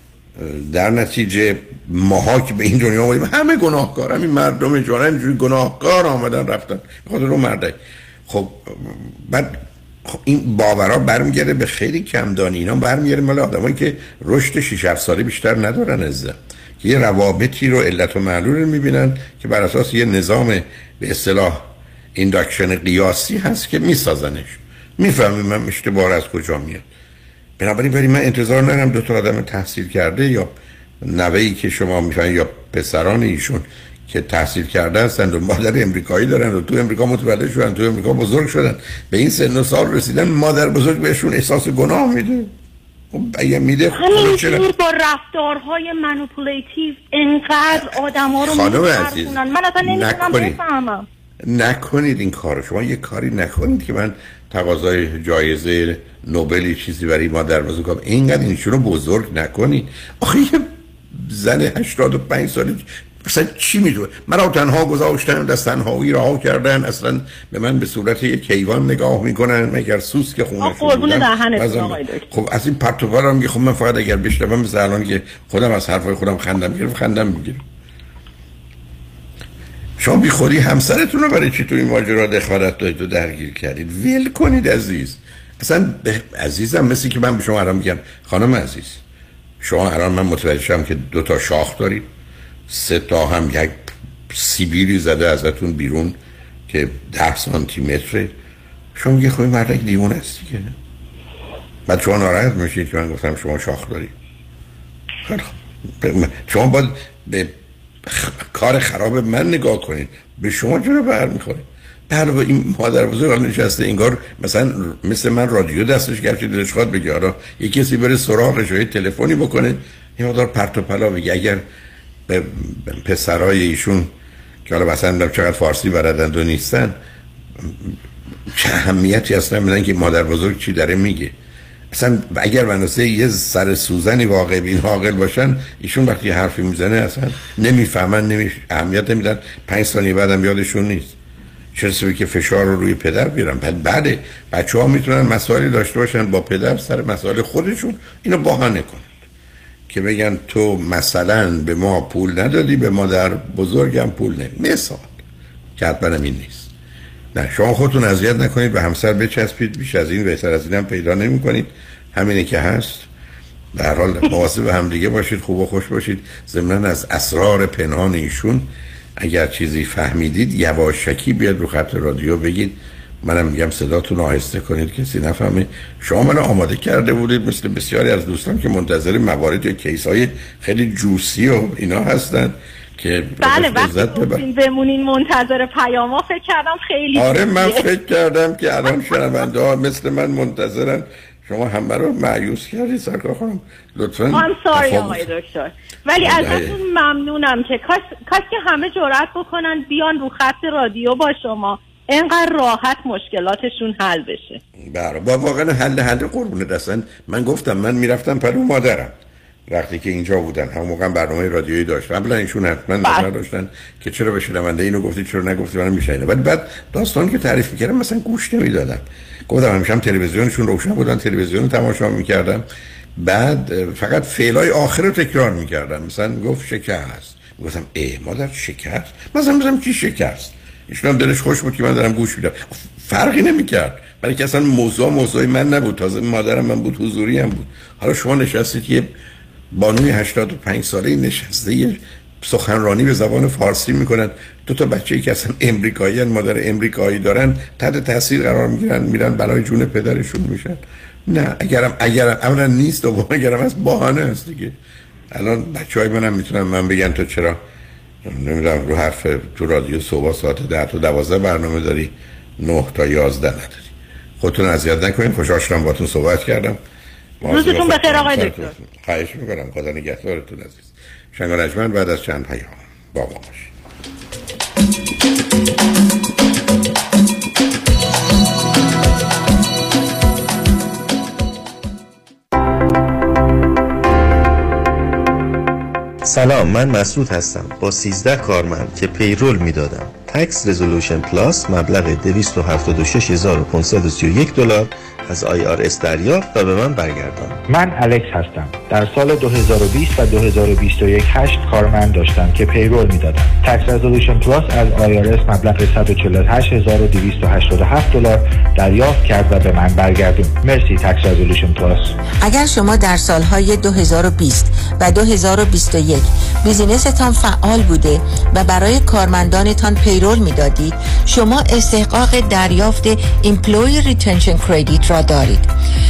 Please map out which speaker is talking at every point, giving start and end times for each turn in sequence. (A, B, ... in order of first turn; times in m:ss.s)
0:00.4-0:26.9 A
0:27.6-0:42.5 A
0:43.1-0:44.7 A
0:43.9-0:51.0 B
0:47.7-0:50.6 A
0:51.4-1:17.6 A
1:10.6-1:12.3 B
1:20.0-1:29.0 A
1:29.6-1:32.1 A
1:32.7-1:36.2 A
1:36.7-1:38.3 A
1:39.0-1:40.7 A
1:41.9-1:44.1 A
1:45.2-1:47.5 A
1:48.0-2:01.6 A
2:02.3-2:04.1 A
2:04.6-2:07.0 A
2:07.6-2:08.0 A
2:08.5-2:11.3 A
2:11.9-2:21.2 A
2:21.8-2:29.2 A
2:29.9-2:35.2 A
2:35.8-2:36.7 A
2:37.3-2:43.1 A
2:43.7-3:04.5 A
3:03.4-3:07.9 B
3:07.2-3:15.3 A
3:14.3-3:24.6 B
3:16.2-3:16.8 A
3:24.9-3:29.2 A
3:29.7-3:42.6 A
3:43.2-3:59.1 A
3:59.7-4:14.8 A
4:15.3-4:17.6 A
4:18.2-4:26.8 A
4:27.4-4:33.7 A
4:27.4-4:28.7 B
4:46.2-4:57.6 C
4:57.7-5:12.1 D
5:12.4-5:25.7 E